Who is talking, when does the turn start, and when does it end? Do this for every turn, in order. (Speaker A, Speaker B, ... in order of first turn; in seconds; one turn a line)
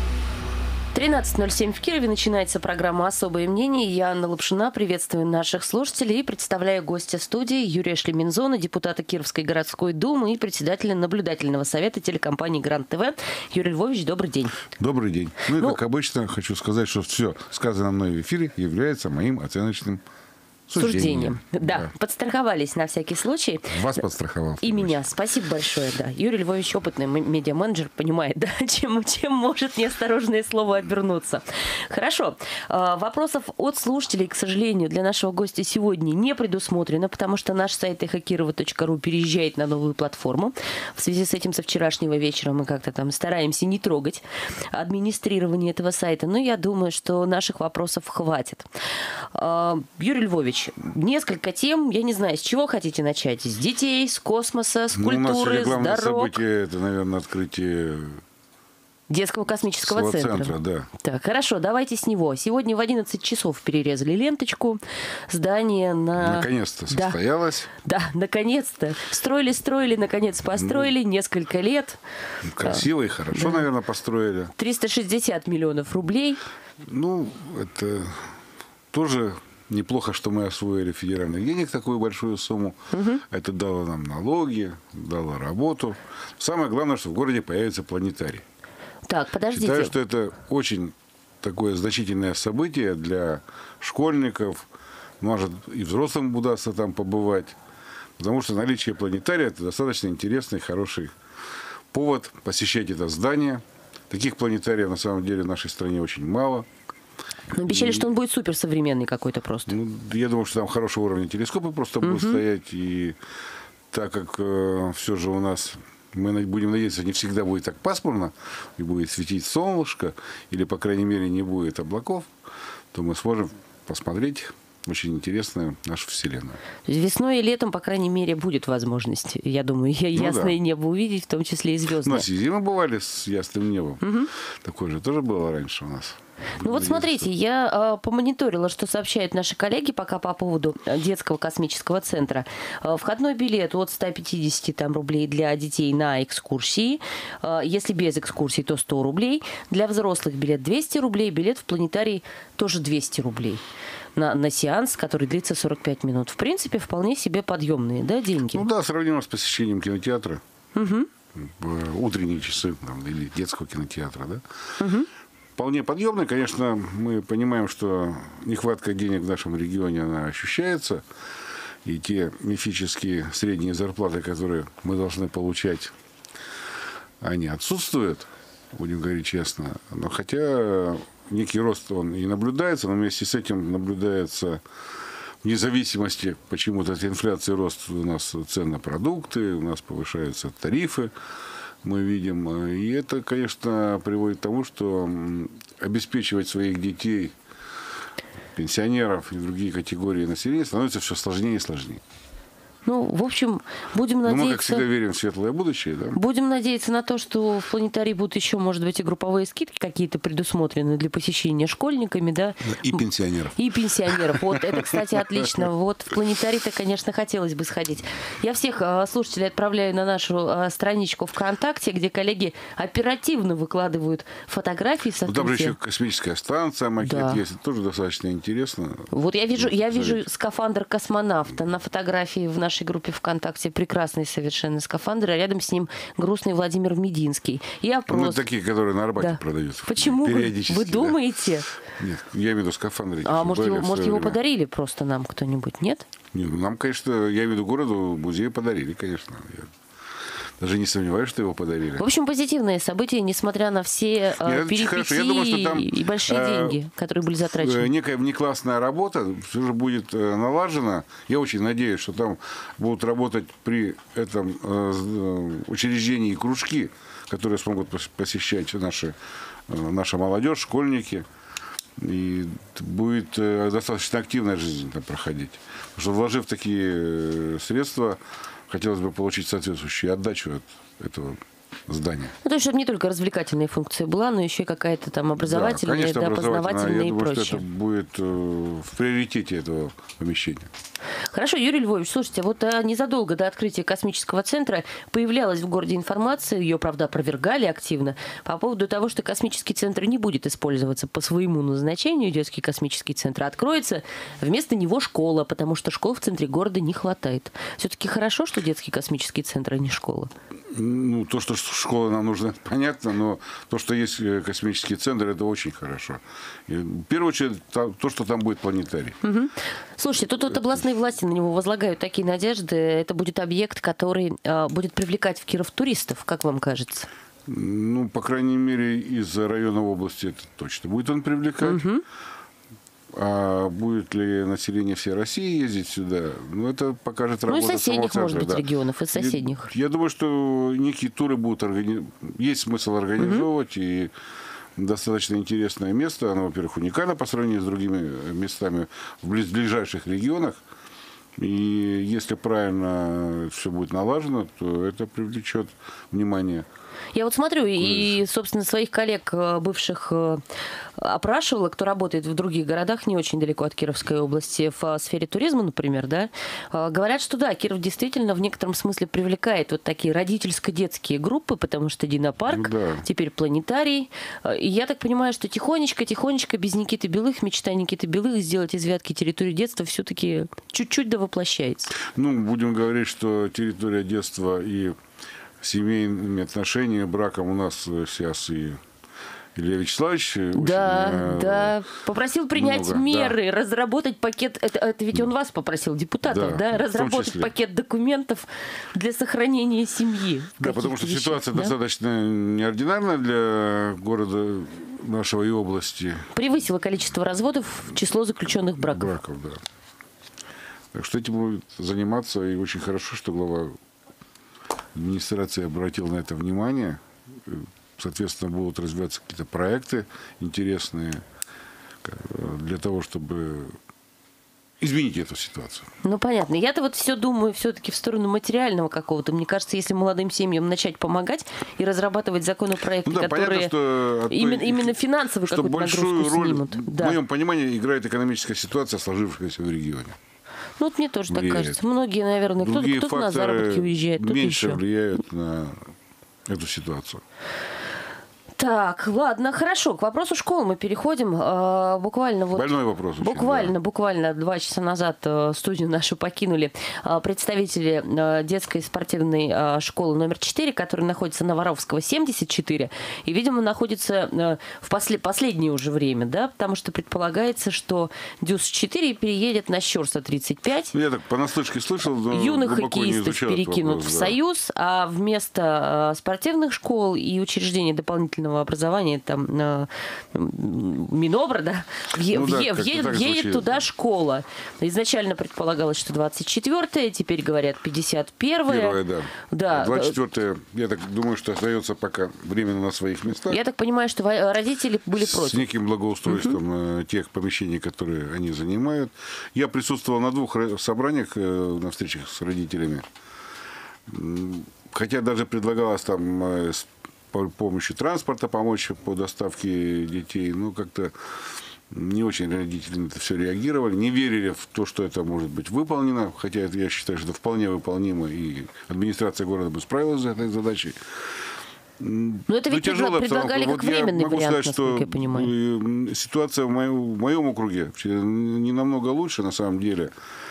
Speaker A: 0.9-14.7
Speaker B: 14.8-20.0
Speaker B: 20.7-21.9
Speaker A: 20.8-23.9
Speaker B: 23.7-25.0
Speaker A: 24.6-48.7
Speaker A: 49.3-56.4
Speaker B: 54.9-58.2
Speaker A: 59.1-67.2
Speaker B: 59.8-60.9
Speaker B: 66.2-67.7
Speaker A: 67.8-72.0
Speaker B: 70.5-70.9
Speaker B: 72.4-74.5
Speaker A: 72.6-73.6
Speaker A: 74.5-76.4
Speaker B: 76.8-78.3
Speaker B: 78.9-88.4
Speaker A: 82.9-83.2
Speaker A: 89.1-89.9
Speaker B: 89.5-94.7
Speaker B: 95.2-97.5
Speaker B: 98.2-101.1
Speaker B: 101.9-106.7
Speaker A: 107.5-109.7
Speaker B: 107.7-108.0
Speaker B: 109.7-113.2
Speaker A: 112.0-112.4
Speaker B: 113.9-122.3
Speaker B: 122.9-126.6
Speaker A: 126.8-132.3
Speaker B: 130.1-130.6
Speaker B: 132.0-137.3
Speaker A: 134.0-134.3
Speaker A: 136.6-153.6
Speaker A: 154.2-158.7
Speaker B: 158.5-160.4
Speaker A: 160.7-161.1
Speaker B: 161.3-164.4
Speaker A: 164.8-165.1
Speaker B: 165.6-171.0
Speaker B: 171.8-175.9
Speaker B: 177.2-184.6
Speaker B: 185.4-191.1
Speaker B: 191.8-197.3
Speaker B: 198.5-202.0
Speaker A: 202.8-204.9
Speaker B: 204.2-206.2
Speaker A: 206.1-213.0
Speaker B: 212.7-215.5
Speaker A: 213.5-225.8
Speaker B: 225.2-230.2
Speaker A: 227.0-227.4
Speaker A: 229.1-238.4
Speaker B: 238.1-241.2
Speaker A: 239.2-241.7
Speaker B: 242.0-244.4
Speaker A: 243.2-246.0
Speaker B: 246.3-249.7
Speaker B: 250.6-252.1
Speaker A: 252.0-257.9
Speaker B: 254.4-256.8
Speaker B: 257.4-269.1
Speaker B: 269.7-271.2
Speaker B: 272.0-282.3
Speaker A: 282.4-287.6
Speaker B: 285.4-290.7
Speaker A: 291.3-310.3
Speaker B: 310.7-319.2
Speaker A: 319.2-327.1
Speaker B: 320.3-320.8
Speaker B: 327.5-331.8
Speaker A: 331.6-332.0
Speaker B: 333.1-344.1
Speaker A: 337.5-339.7
Speaker A: 343.2-343.5
Speaker B: 344.8-350.6
Speaker B: 351.4-356.7
Speaker A: 357.1-360.4
Speaker B: 357.8-358.2
Speaker A: 361.0-381.9
Speaker B: 372.5-373.0
Speaker B: 382.0-385.0
Speaker B: 385.6-388.8
Speaker B: 389.6-391.7
Speaker A: 390.5-401.7
Speaker B: 392.5-393.4
Speaker B: 396.2-397.5
Speaker B: 400.6-406.3
Speaker A: 406.3-409.1
Speaker B: 408.8-409.6
Speaker B: 410.9-413.8
Speaker B: 414.9-421.2
Speaker B: 422.0-423.8
Speaker B: 424.8-425.9
Speaker A: 426.0-433.7
Speaker B: 433.0-440.2
Speaker A: 434.3-437.2
Speaker A: 440.8-444.8
Speaker B: 441.3-441.8
Speaker B: 442.6-445.8
Speaker B: 446.5-447.2
Speaker A: 448.6-470.9
Speaker B: 452.5-453.7
Speaker B: 470.9-474.4
Speaker A: 472.3-490.2
Speaker B: 482.2-483.8
Speaker B: 488.7-493.6
Speaker A: 493.5-495.6
Speaker B: 495.2-503.1
Speaker A: 496.3-496.6
Speaker B: 504.1-511.3
Speaker B: 511.9-521.0
Speaker B: 522.0-530.1
Speaker A: 522.5-525.5